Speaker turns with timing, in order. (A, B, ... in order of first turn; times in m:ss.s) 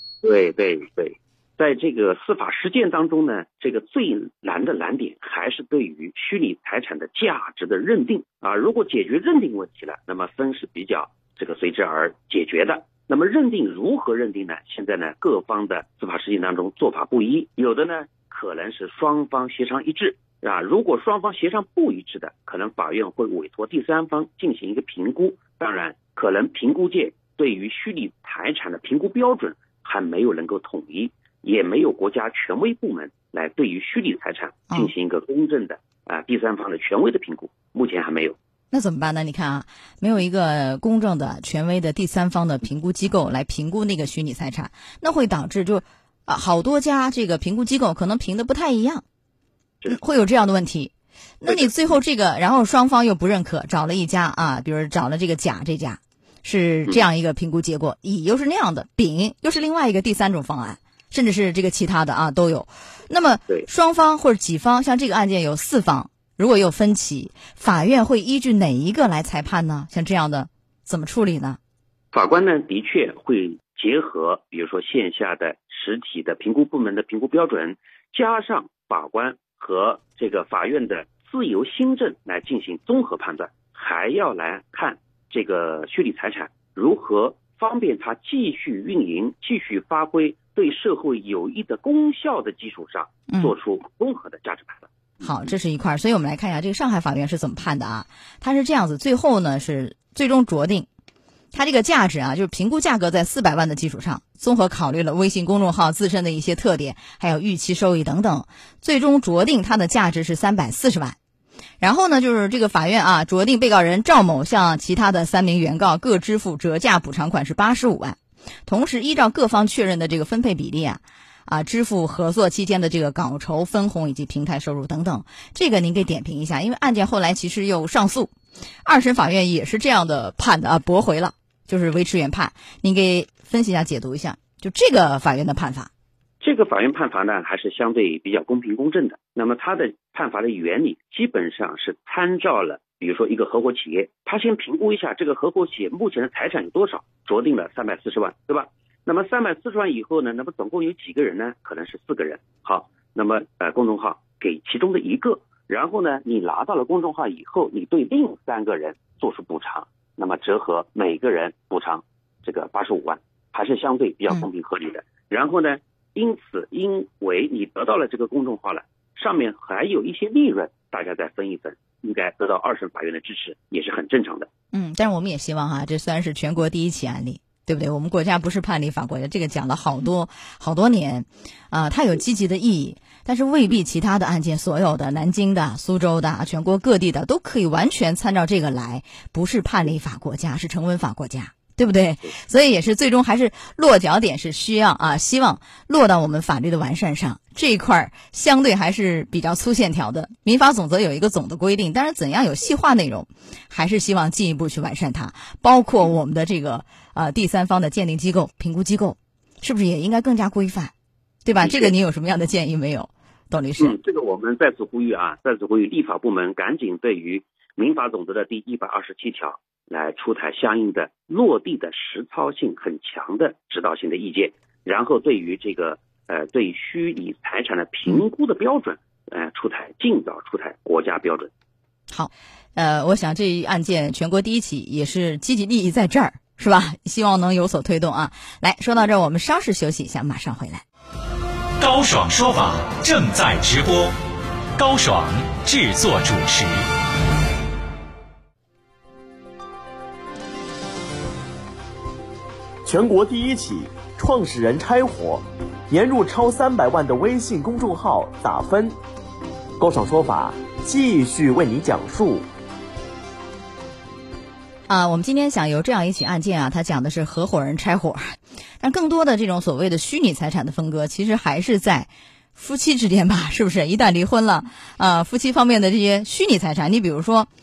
0:00.2-0:38.4 A
0:38.7-0:49.0 B
0:49.9-1:11.6 B
0:51.4-0:52.0 A
1:12.1-1:34.9 A
1:35.2-1:40.9 B
1:41.5-1:51.2 B
1:51.8-2:08.3 B
2:08.8-2:15.9 B
2:16.4-2:54.5 A
2:54.7-3:30.9 B
3:31.4-3:34.0 B
3:31.6-3:31.9 A
3:33.8-3:51.5 A
3:52.1-4:00.8 B
4:01.8-4:04.1 C
4:04.8-4:06.8 C
4:12.8-4:19.0 D
4:19.8-4:22.5 D
4:24.9-4:37.5 B